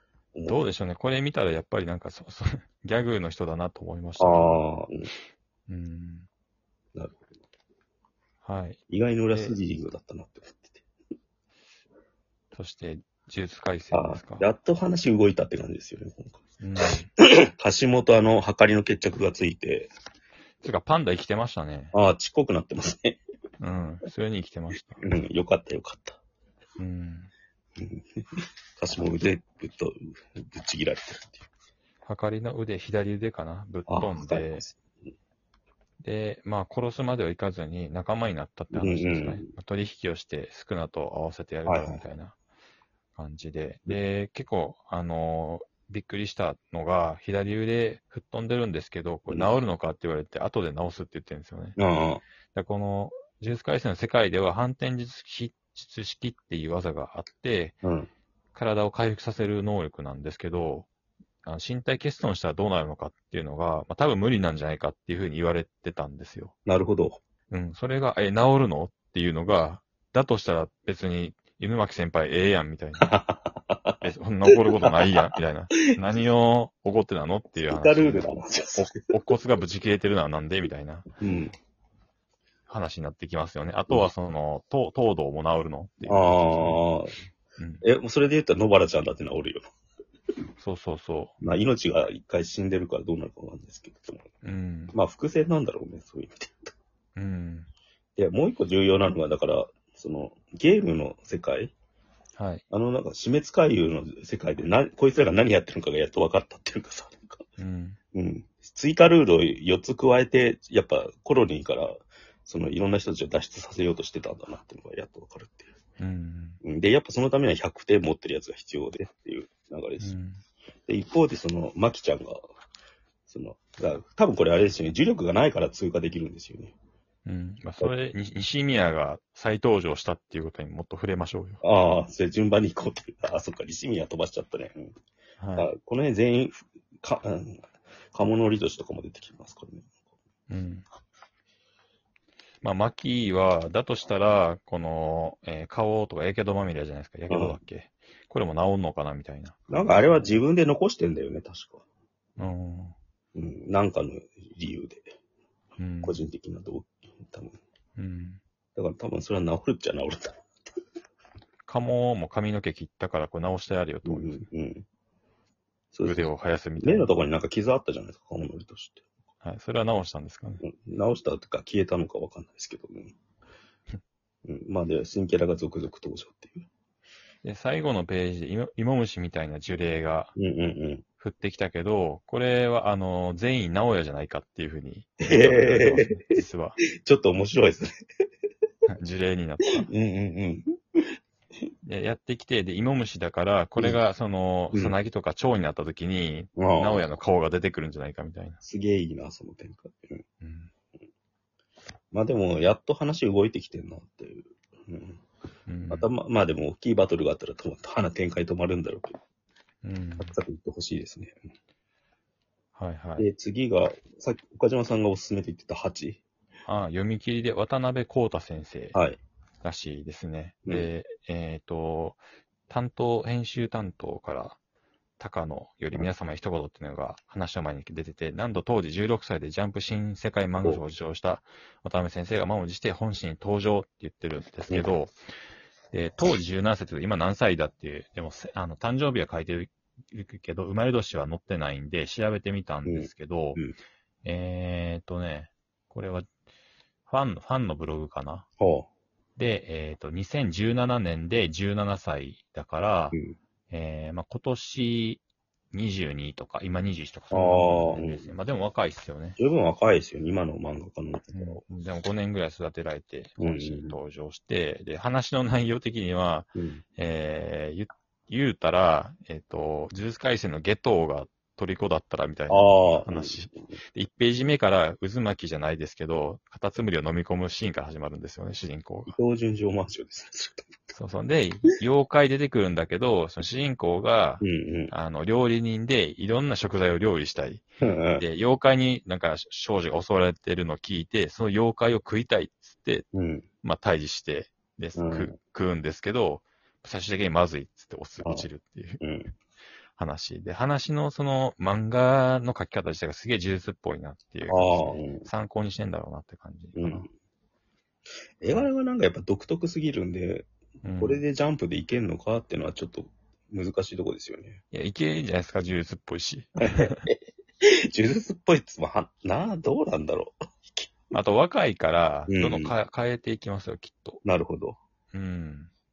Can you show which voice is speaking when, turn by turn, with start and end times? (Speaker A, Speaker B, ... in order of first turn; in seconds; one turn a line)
Speaker A: 0.3-0.7
Speaker B: 0.5-4.6
Speaker A: 4.2-5.1
Speaker B: 5.7-6.3
Speaker A: 6.9-7.4
Speaker B: 8.4-9.6
Speaker A: 8.9-10.8
Speaker B: 12.5-14.5
Speaker A: 13.9-19.9
Speaker B: 16.6-17.1
Speaker B: 20.6-21.9
Speaker A: 21.9-23.2
Speaker B: 23.6-25.0
Speaker A: 25.0-26.2
Speaker B: 26.8-27.3
Speaker A: 27.8-28.2
Speaker A: 28.8-31.5
Speaker B: 32.0-34.6
Speaker A: 33.9-34.8
Speaker B: 36.0-42.4
Speaker A: 38.7-39.5
Speaker A: 41.6-42.0
Speaker B: 43.1-51.8
Speaker A: 49.3-49.5
Speaker A: 51.8-52.2
Speaker B: 52.5-57.8
Speaker A: 57.8-58.1
Speaker B: 58.5-60.9
Speaker B: 61.4-66.5
Speaker A: 66.7-67.2
Speaker B: 67.5-73.2
Speaker A: 73.0-75.2
Speaker B: 74.0-81.1
Speaker A: 77.6-79.1
Speaker A: 81.2-81.5
Speaker B: 82.7-86.8
Speaker A: 86.0-87.1
Speaker B: 87.6-87.8
Speaker A: 87.8-89.7
Speaker B: 90.6-91.4
Speaker A: 91.4-94.3
Speaker B: 94.4-94.9
Speaker A: 94.9-96.7
Speaker B: 97.2-97.7
Speaker A: 98.2-101.7
Speaker B: 102.4-102.6
Speaker A: 102.7-107.4
Speaker B: 107.6-108.0
Speaker A: 108.1-115.7
Speaker B: 116.0-116.6
Speaker A: 116.6-120.1
Speaker B: 120.0-120.4
Speaker A: 120.9-122.4
Speaker A: 123.3-126.7
Speaker B: 127.2-131.6
Speaker A: 131.6-134.9
Speaker B: 135.4-135.7
Speaker A: 135.6-139.9
Speaker B: 140.5-140.8
Speaker B: 142.6-150.4
Speaker A: 147.3-147.6
Speaker A: 149.7-151.8
Speaker B: 152.4-152.9
Speaker A: 153.3-155.1
Speaker B: 155.8-156.2
Speaker A: 156.0-157.6
Speaker B: 158.0-158.4
Speaker A: 158.8-160.5
Speaker B: 161.7-164.4
Speaker A: 164.1-164.8
Speaker A: 165.9-166.2
Speaker B: 166.0-167.1
Speaker A: 166.8-169.0
Speaker B: 169.4-170.6
Speaker A: 170.6-173.1
Speaker A: 174.4-176.7
Speaker B: 177.4-180.3
Speaker A: 180.3-181.0
Speaker B: 181.2-186.8
Speaker A: 185.2-186.4
Speaker A: 187.0-187.9
Speaker B: 188.9-189.9
Speaker A: 189.8-190.7
Speaker B: 191.8-198.6
Speaker A: 196.6-197.1
Speaker A: 198.6-200.2
Speaker B: 200.4-200.7
Speaker A: 202.1-205.2
Speaker B: 205.7-206.1
Speaker A: 205.9-209.2
Speaker B: 209.8-210.3
Speaker A: 210.2-211.3
Speaker B: 212.7-213.3
Speaker A: 213.2-216.2
Speaker B: 216.7-219.0
Speaker A: 218.9-219.2
Speaker B: 219.6-224.6
Speaker B: 225.2-235.2
Speaker B: 235.9-243.6
Speaker A: 242.8-243.8
Speaker B: 244.2-246.3
Speaker B: 247.1-248.5
Speaker A: 248.6-248.9
Speaker B: 249.4-253.2
Speaker B: 253.7-259.4
Speaker A: 257.3-258.3
Speaker A: 259.4-261.6
Speaker B: 261.3-279.1
Speaker A: 263.4-264.0
Speaker A: 266.5-266.8
Speaker A: 272.5-273.7
Speaker A: 279.1-280.9
Speaker B: 280.9-287.6
Speaker A: 284.4-284.9
Speaker A: 287.8-288.2
Speaker B: 288.2-293.1
Speaker A: 293.1-293.4
Speaker B: 293.6-299.0
Speaker A: 295.0-295.3
Speaker A: 299.0-299.3
Speaker B: 299.9-307.1
Speaker A: 304.5-305.3
Speaker A: 306.8-307.1
Speaker A: 308.4-310.5
Speaker B: 310.8-311.2
Speaker A: 311.0-314.6
Speaker B: 314.7-317.0
Speaker A: 316.7-321.1
Speaker B: 321.1-324.2
Speaker A: 322.3-322.7
Speaker A: 324.2-324.8
Speaker B: 325.1-325.7